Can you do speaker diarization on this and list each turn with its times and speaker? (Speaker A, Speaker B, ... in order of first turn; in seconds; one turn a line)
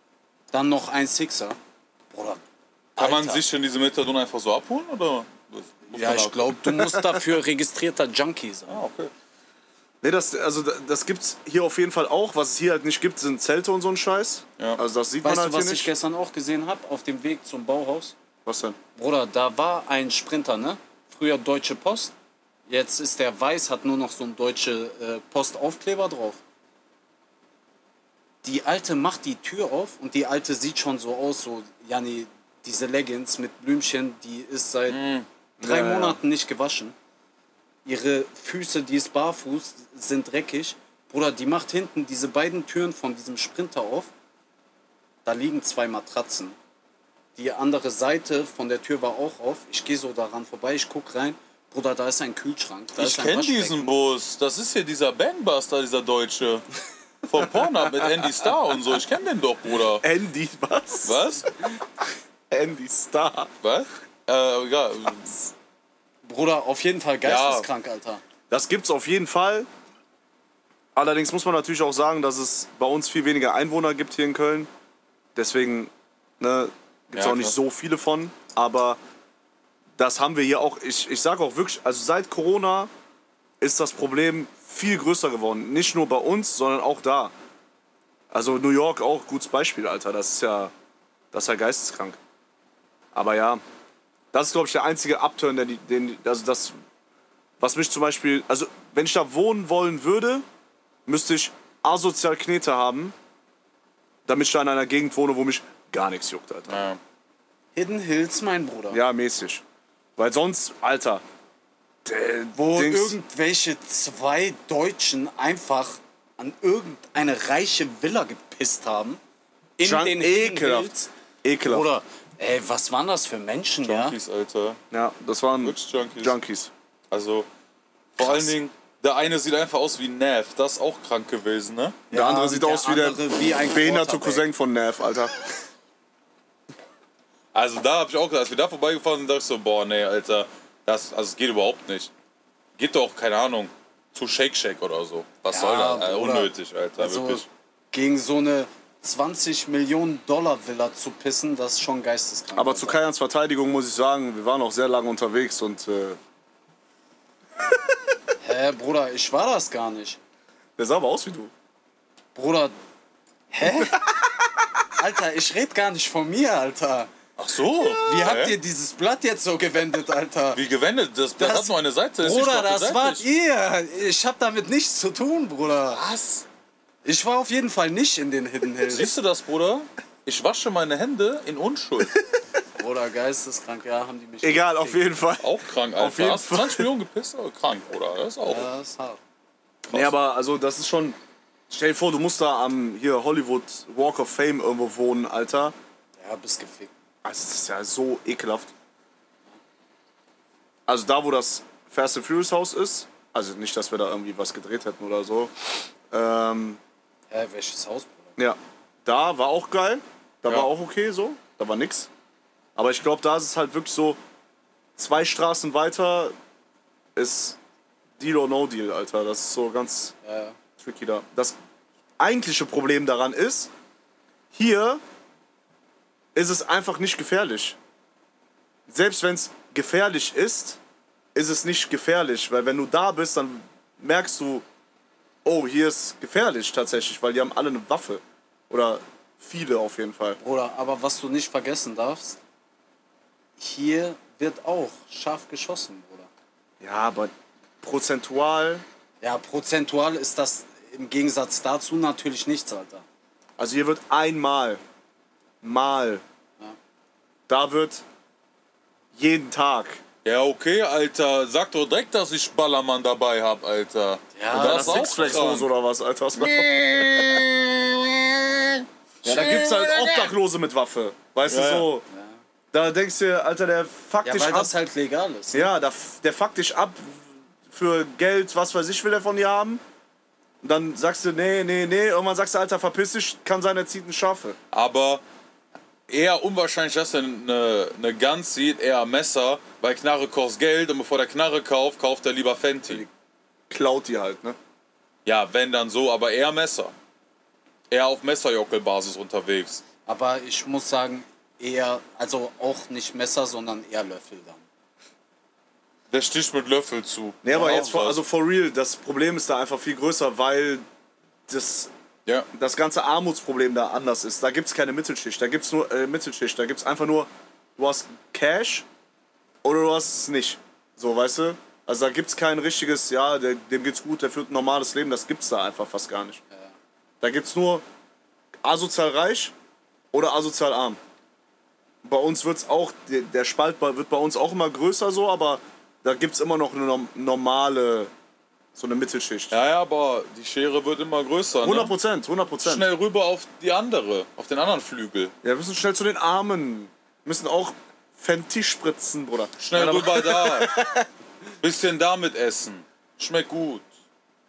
Speaker A: 0.5-1.6
Speaker A: 2.1-2.4
Speaker A: 3.0-3.4
Speaker B: 3.0-6.6
Speaker A: 5.9-8.8
Speaker C: 6.8-7.2
Speaker B: 8.7-9.1
Speaker C: 10.0-15.9
Speaker A: 15.2-18.1
Speaker C: 18.4-18.8
Speaker A: 18.9-22.1
Speaker A: 22.7-26.4
Speaker A: 28.4-35.0
Speaker B: 34.9-35.2
Speaker C: 35.6-36.2
Speaker A: 35.6-36.9
Speaker A: 37.8-44.1
Speaker A: 45.2-46.5
Speaker A: 47.4-53.9
Speaker B: 53.0-56.6
Speaker B: 57.3-60.0
Speaker C: 60.0-61.3
Speaker B: 61.0-61.5
Speaker C: 62.5-63.5
Speaker B: 63.6-65.4
Speaker A: 66.2-68.2
Speaker B: 67.2-67.7
Speaker C: 68.5-69.7
Speaker C: 70.9-74.7
Speaker C: 75.3-79.0
Speaker B: 77.1-77.5
Speaker C: 80.0-82.9
Speaker C: 83.6-87.3
Speaker C: 88.3-90.7
Speaker C: 91.3-92.2
Speaker C: 93.1-93.6
Speaker C: 94.3-96.8
Speaker C: 97.6-100.4
Speaker C: 101.0-103.1
Speaker C: 104.3-106.8
Speaker B: 106.7-107.0
Speaker A: 107.7-109.0
Speaker C: 108.9-109.6
Speaker C: 110.2-111.2
Speaker C: 112.0-113.2
Speaker A: 112.5-119.2
Speaker A: 119.8-121.1
Speaker C: 119.8-121.8
Speaker A: 121.6-124.1
Speaker B: 123.8-124.8
Speaker C: 124.9-126.7
Speaker B: 125.6-126.3
Speaker B: 127.1-127.5
Speaker B: 128.2-132.0
Speaker A: 128.2-128.5
Speaker A: 132.1-134.5
Speaker C: 132.1-135.3
Speaker B: 137.5-142.1
Speaker B: 142.8-147.4
Speaker A: 145.5-153.0
Speaker C: 152.6-156.2
Speaker A: 158.4-160.2
Speaker C: 160.8-161.5
Speaker A: 162.3-162.7
Speaker A: 163.5-164.0
Speaker A: 165.0-167.1
Speaker B: 167.4-168.6
Speaker A: 168.0-170.6
Speaker B: 170.5-173.2
Speaker A: 171.4-176.0
Speaker B: 175.9-176.4
Speaker A: 177.0-179.1
Speaker B: 178.8-182.1
Speaker A: 182.8-185.1
Speaker C: 184.4-186.9
Speaker B: 185.4-188.7
Speaker A: 188.5-189.2
Speaker B: 189.9-190.1
Speaker C: 189.9-191.2
Speaker C: 191.7-195.7
Speaker A: 196.2-196.9
Speaker C: 197.2-198.7
Speaker C: 200.9-205.5
Speaker C: 206.1-206.8
Speaker A: 207.3-208.3
Speaker C: 208.4-212.1
Speaker C: 212.8-214.2
Speaker C: 215.0-216.3
Speaker C: 217.2-217.6
Speaker C: 218.2-220.1
Speaker A: 220.2-220.6
Speaker C: 220.8-221.6
Speaker C: 222.2-223.7
Speaker C: 224.5-225.0
Speaker C: 226.3-227.8
Speaker C: 228.9-230.8
Speaker C: 231.3-234.6
Speaker C: 235.4-240.4
Speaker A: 240.4-242.4
Speaker A: 243.6-246.3
Speaker C: 246.8-248.8
Speaker A: 249.2-253.0
Speaker C: 253.6-254.8
Speaker C: 255.6-256.2
Speaker C: 257.5-258.0
Speaker C: 259.1-260.0
Speaker B: 260.2-265.7
Speaker A: 264.3-265.6
Speaker C: 264.5-267.4
Speaker B: 266.4-270.3
Speaker C: 269.2-272.0
Speaker B: 271.5-271.9
Speaker A: 272.1-272.4
Speaker C: 272.7-274.7
Speaker A: 274.2-275.7
Speaker C: 275.5-279.8
Speaker C: 280.6-284.6
Speaker B: 284.7-285.2
Speaker B: 286.1-293.1
Speaker C: 293.7-294.6
Speaker B: 295.2-296.9
Speaker B: 297.9-299.8
Speaker A: 300.1-304.6
Speaker B: 306.1-308.2
Speaker C: 307.4-310.8
Speaker A: 307.5-308.0
Speaker C: 311.5-311.9
Speaker C: 312.5-318.8
Speaker C: 319.6-326.4
Speaker C: 327.2-327.8
Speaker C: 328.6-329.5
Speaker C: 330.1-331.0
Speaker C: 332.0-338.1
Speaker C: 338.7-339.6
Speaker B: 339.5-341.9
Speaker C: 341.6-342.9
Speaker B: 342.6-345.3
Speaker C: 345.4-351.1
Speaker B: 349.6-350.7
Speaker B: 351.6-353.8